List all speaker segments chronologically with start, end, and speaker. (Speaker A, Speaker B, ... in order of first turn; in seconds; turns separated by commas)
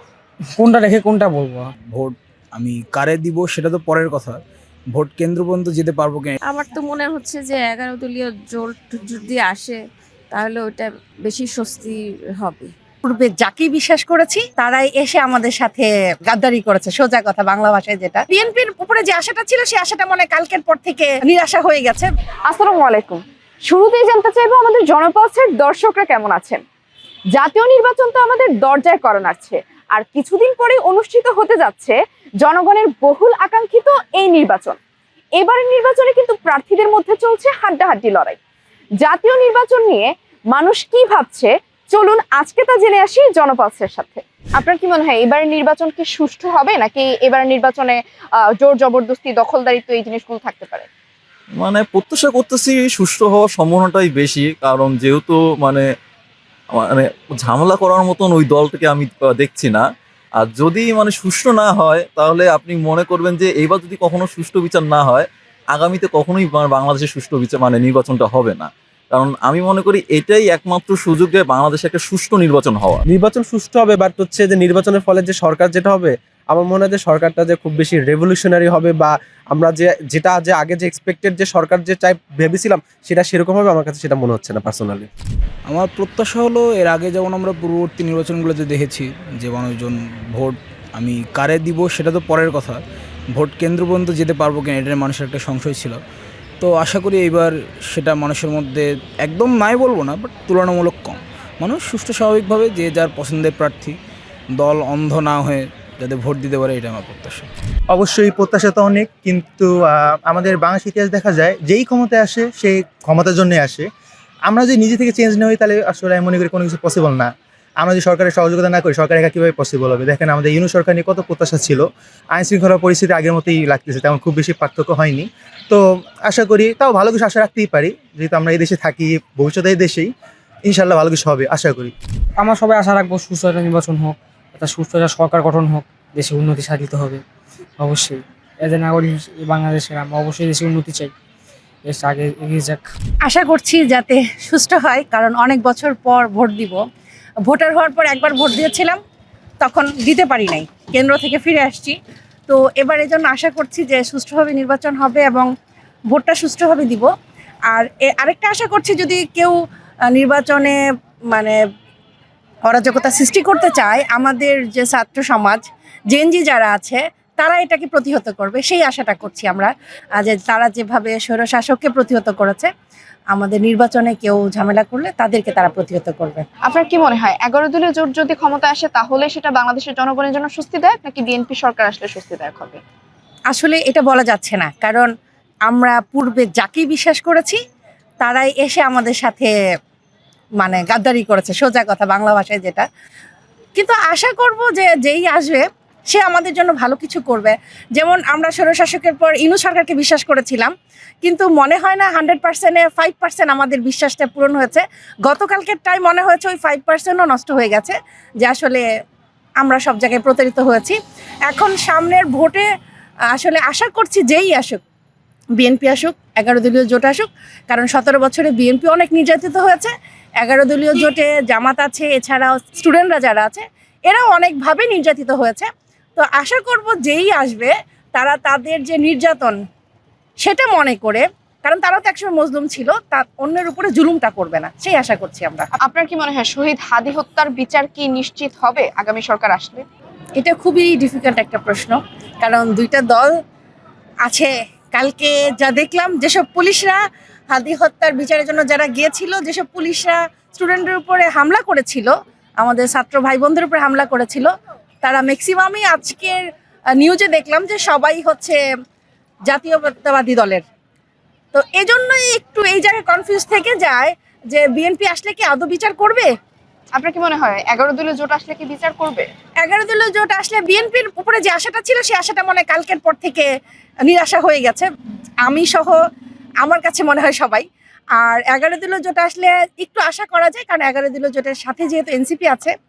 Speaker A: 0.6-1.7, Speaker B: 1.9-4.4, Speaker B: 4.9-6.4, Speaker C: 6.4-12.7, Speaker D: 13.1-22.1, Speaker E: 22.5-26.6, Speaker E: 27.4-34.8, Speaker E: 35.4-38.4, Speaker E: 39.0-48.0, Speaker E: 48.6-50.9, Speaker F: 51.6-55.9, Speaker F: 56.7-59.8, Speaker F: 60.4-73.0, Speaker G: 73.1-85.1, Speaker B: 85.7-92.8, Speaker B: 93.3-96.0, Speaker B: 96.6-104.0, Speaker B: 104.5-107.5, Speaker H: 107.9-113.9, Speaker H: 114.5-130.1, Speaker H: 130.7-131.9, Speaker A: 132.4-137.2, Speaker A: 137.8-141.1, Speaker A: 141.8-142.9, Speaker D: 143.2-146.8, Speaker D: 147.5-149.0, Speaker D: 149.6-152.0, Speaker D: 152.5-155.5, Speaker D: 156.1-157.1, Speaker D: 157.7-160.8, Speaker D: 161.3-161.6, Speaker D: 162.7-172.7, Speaker D: 173.3-176.4, Speaker E: 176.7-182.8, Speaker D: 183.5-185.1, Speaker D: 185.7-187.6, Speaker D: 188.2-189.5, Speaker D: 190.6-192.9, Speaker D: 193.8-200.7, Speaker D: 201.2-208.8, Speaker D: 209.6-212.7, Speaker D: 213.3-214.8, Speaker D: 215.6-229.6, Speaker D: 230.4-235.7, Speaker E: 235.8-239.8, Speaker D: 240.4-243.3, Speaker D: 244.3-247.0, Speaker D: 247.5-254.5, Speaker D: 255.0-256.4, Speaker D: 257.0-258.6, Speaker D: 259.5-260.6, Speaker D: 261.5-266.3, Speaker E: 266.9-269.3, Speaker D: 269.6-273.5, Speaker D: 274.1-274.9, Speaker D: 275.4-276.0, Speaker D: 276.6-277.7, Speaker D: 278.2-282.7